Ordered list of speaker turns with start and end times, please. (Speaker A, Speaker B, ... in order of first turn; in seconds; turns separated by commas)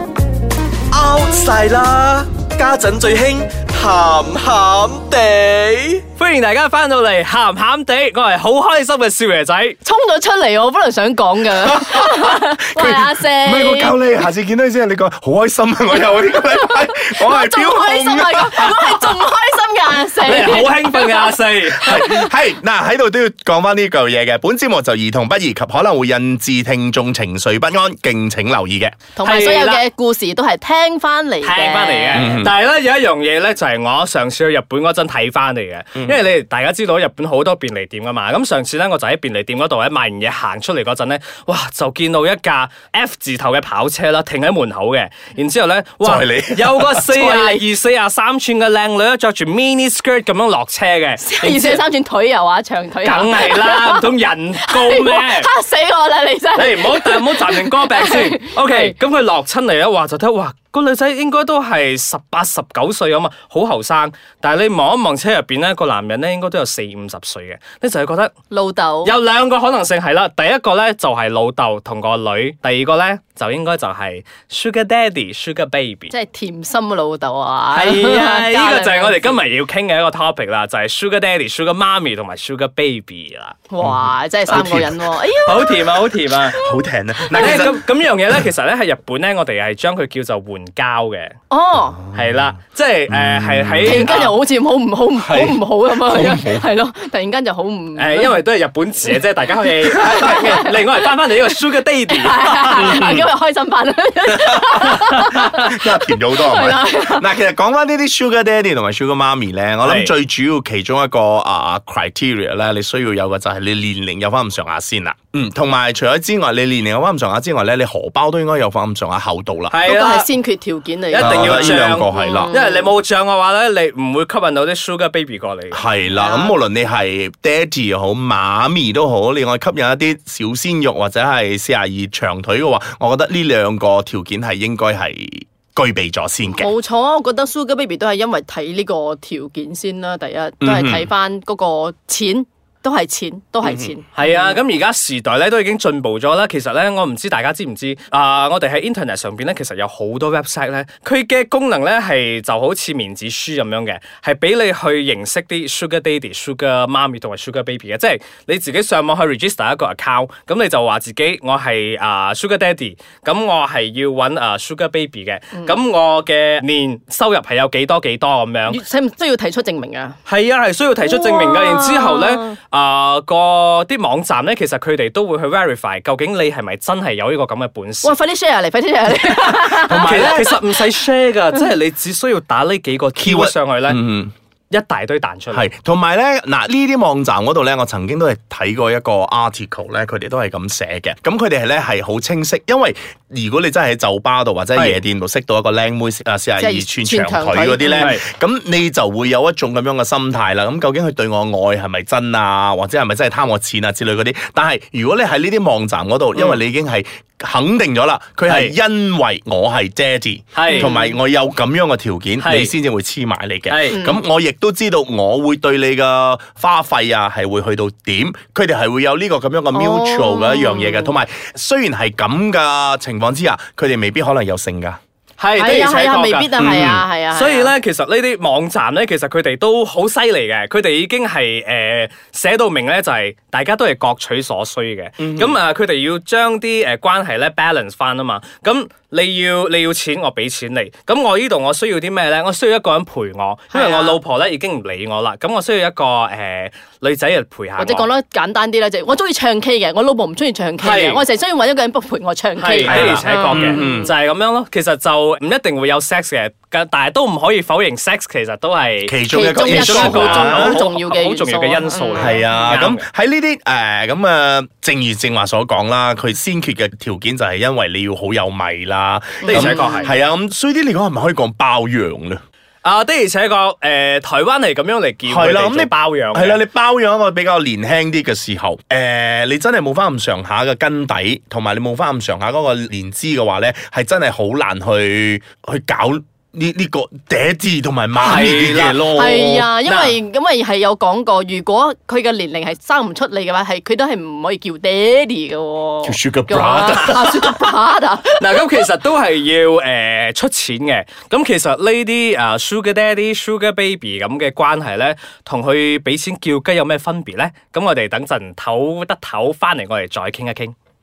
Speaker A: 0.9-6.0, Speaker B: 6.2-9.8, Speaker C: 9.8-14.0, Speaker D: 11.6-19.0, Speaker C: 16.3-22.3, Speaker B: 20.2-22.0, Speaker D: 21.7-29.0, Speaker C: 29.1-32.3, Speaker B: 29.2-29.8, Speaker B: 31.4-51.8, Speaker D: 32.1-32.5, Speaker D: 46.0-47.0, Speaker C: 47.0-47.6, Speaker C: 51.2-59.0, Speaker B: 53.0-55.5, Speaker B: 56.6-68.3, Speaker C: 68.5-69.1, Speaker B: 69.0-76.1, Speaker C: 76.1-79.4, Speaker B: 77.7-83.6, Speaker C: 83.7-85.8, Speaker D: 83.8-85.2, Speaker B: 85.5-86.6, Speaker D: 86.5-87.8, Speaker B: 87.3-91.3, Speaker C: 87.3-87.7, Speaker C: 91.5-92.0, Speaker B: 92.1-94.3, Speaker D: 93.1-94.1, Speaker C: 93.8-98.3, Speaker D: 95.2-96.7, Speaker B: 98.0-103.0, Speaker C: 99.6-101.6, Speaker C: 102.1-107.3, Speaker D: 102.8-103.3, Speaker D: 104.3-119.8, Speaker B: 105.0-105.5, Speaker B: 109.8-110.1, Speaker B: 119.7-120.3, Speaker C: 119.9-122.9, Speaker B: 121.1-125.8, Speaker D: 121.2-122.5, Speaker D: 125.7-136.7, Speaker C: 126.1-126.5, Speaker C: 136.6-144.6, Speaker D: 140.6-141.1, Speaker D: 143.6-143.9, Speaker B: 144.2-168.8, Speaker C: 168.7-170.2, Speaker B: 170.3-178.2, Speaker C: 171.1-172.6, Speaker C: 178.0-180.9, Speaker B: 179.2-184.0, Speaker D: 179.8-180.5, Speaker D: 183.2-184.3, Speaker B: 184.7-185.7, Speaker D: 185.5-225.0, Speaker B: 194.8-195.0, Speaker C: 196.6-198.2, Speaker B: 197.9-198.2, Speaker B: 206.3-206.6, Speaker B: 208.5-208.7, Speaker B: 210.6-210.9, Speaker C: 210.7-211.2, Speaker B: 212.4-212.7, Speaker B: 213.7-214.0, Speaker C: 213.9-214.2, Speaker C: 219.7-221.2, Speaker B: 225.4-226.5, Speaker C: 225.6-227.8, Speaker D: 226.6-227.1, Speaker B: 227.3-248.1, Speaker D: 235.2-235.6, Speaker C: 243.7-244.2, Speaker C: 247.8-254.1, Speaker B: 250.8-251.2, Speaker B: 252.6-263.1, Speaker D: 252.9-254.1, Speaker D: 259.1-260.8, Speaker C: 259.3-262.6, Speaker D: 262.2-272.4, Speaker C: 269.4-270.1, Speaker B: 269.5-270.1, Speaker B: 272.8-276.6, Speaker D: 275.3-289.7, Speaker B: 288.2-289.2, Speaker C: 289.1-298.7, Speaker B: 289.9-290.1, Speaker D: 296.0-297.7, Speaker B: 298.4-310.7